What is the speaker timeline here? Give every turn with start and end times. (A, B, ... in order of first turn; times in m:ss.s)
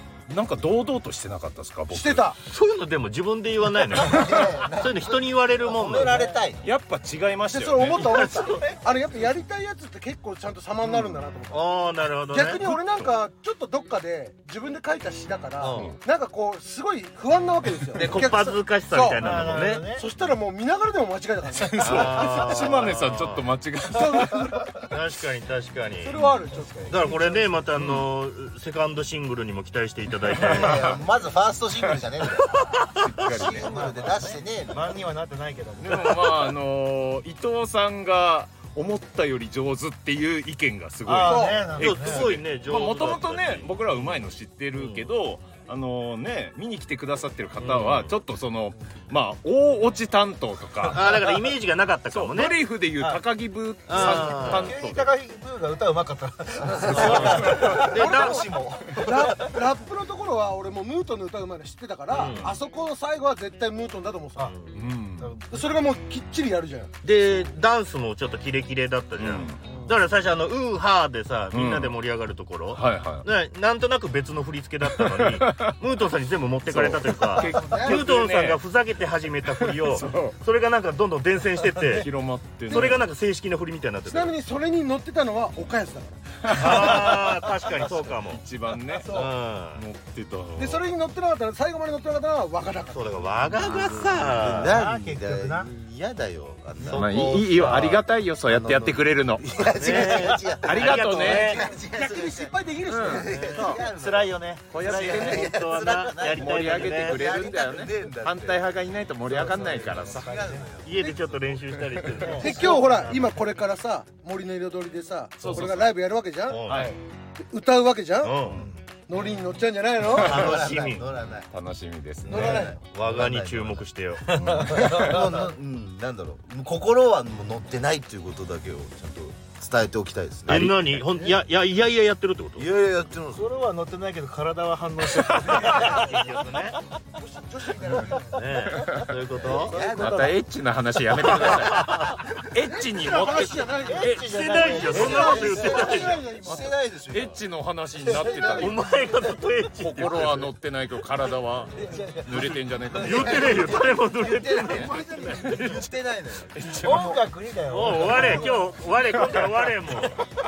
0:00.3-0:02.2 A
0:01.9-0:02.4 B
0:02.5-0:06.2 C
0:04.0-0:06.6 D
0:06.6-0:08.1 A
0:07.5-0:11.7 B
0:07.9-0:08.7 C
0:10.8-0:12.8 C
0:12.3-0:19.3 B
0:15.6-0:16.0 C
0:17.9-0:19.8 C
0:19.2-0:20.0 E
0:19.9-0:22.8 B
0:21.7-0:24.5 A
0:21.8-0:23.5 C
0:23.9-0:24.7 B
0:24.8-0:26.3 C
0:26.0-0:27.5 B
0:26.5-0:27.0 E
0:26.9-0:30.8 C
0:27.8-0:28.0 A
0:30.5-0:35.0 D
0:30.6-0:31.0 A
0:32.5-0:32.9 C
0:32.9-0:33.8 A
0:33.5-0:36.4 E
0:35.8-0:51.2 A
0:41.0-0:42.3 E
0:41.2-0:41.7 B
0:41.8-0:44.2 C
0:44.7-0:45.1 C
0:47.6-0:48.1 C
0:50.9-0:52.6 C
0:52.1-0:55.1 A
0:53.0-0:53.2 E
0:53.9-0:54.8 C
0:53.9-0:58.7 E
0:56.7-0:59.1 D
0:56.9-0:58.5 C
0:57.3-0:57.8 A
0:57.7-1:04.5 B
1:02.1-1:02.6 C
1:04.4-1:04.8 C
1:04.7-1:05.3 A
1:05.1-1:05.6 E
1:05.5-1:06.9 B
1:07.0-1:22.1 C
1:09.2-1:09.6 A
1:09.6-1:09.9 E
1:11.5-1:12.0 A
1:12.7-1:13.3 A
1:14.9-1:15.7 A
1:16.7-1:18.6 A
1:17.4-1:18.0 B
1:19.5-1:20.4 A
1:21.9-1:23.0 A
1:22.7-1:24.3 C
1:22.7-1:23.0 B
1:24.0-1:27.2 B
1:26.4-1:26.8 A
1:26.5-1:28.4 C
1:28.2-1:29.2 A
1:29.1-1:29.8 C
1:29.7-1:30.8 A
1:30.6-1:33.3 B
1:32.9-1:34.7 C
1:33.4-1:50.9 D
1:34.5-1:35.7 E
1:36.8-1:38.0 C
1:36.9-1:39.4 A
1:39.8-1:41.7 C
1:39.9-1:40.3 E
1:40.6-1:41.5 A
1:41.5-1:43.3 B
1:42.9-1:43.3 A
1:43.3-1:47.2 C
1:43.6-1:45.5 E
1:44.7-1:50.4 A
1:49.3-1:50.7 E
1:50.8-1:53.1 C
1:51.0-1:51.4 B
1:52.2-1:53.2 E
1:52.4-1:56.6 B
1:55.4-1:55.9 A
1:56.4-1:56.9 C
1:56.7-1:57.0 A
1:57.4-1:58.4 B
1:58.2-1:58.7 C
1:59.1-2:00.6 B
2:00.1-2:01.5 D
2:00.3-2:01.1 C
2:01.5-2:02.7 A
2:02.2-2:03.9 D
2:02.3-2:02.8 B
2:02.7-2:04.8 C
2:04.4-2:05.2 A
2:04.5-2:05.2 E
2:04.7-2:11.3 D
2:10.5-2:12.7 C
2:12.6-2:13.5 D
2:13.3-2:16.0 E
2:15.2-2:15.8 A
2:15.7-2:16.8 C
2:17.2-2:18.5 B
2:18.3-2:19.8 C
2:18.7-2:19.1 A
2:19.4-2:20.4 E
2:19.6-2:20.3 D
2:19.9-2:24.4 A
2:21.2-2:22.2 C
2:22.7-2:26.7 B
2:23.8-2:26.0 E
2:24.2-2:26.2 C
2:24.9-2:27.4 D
2:26.4-2:28.8 A
2:28.1-2:28.6 D
2:28.4-2:30.5 C
2:29.8-2:33.6 A
2:31.7-2:33.4 E
2:32.1-2:37.1 D
2:33.0-2:35.2 C
2:34.7-2:35.8 A
2:36.5-2:37.2 A
2:36.8-2:38.6 E
2:37.7-2:40.2 C
2:37.9-2:38.2 A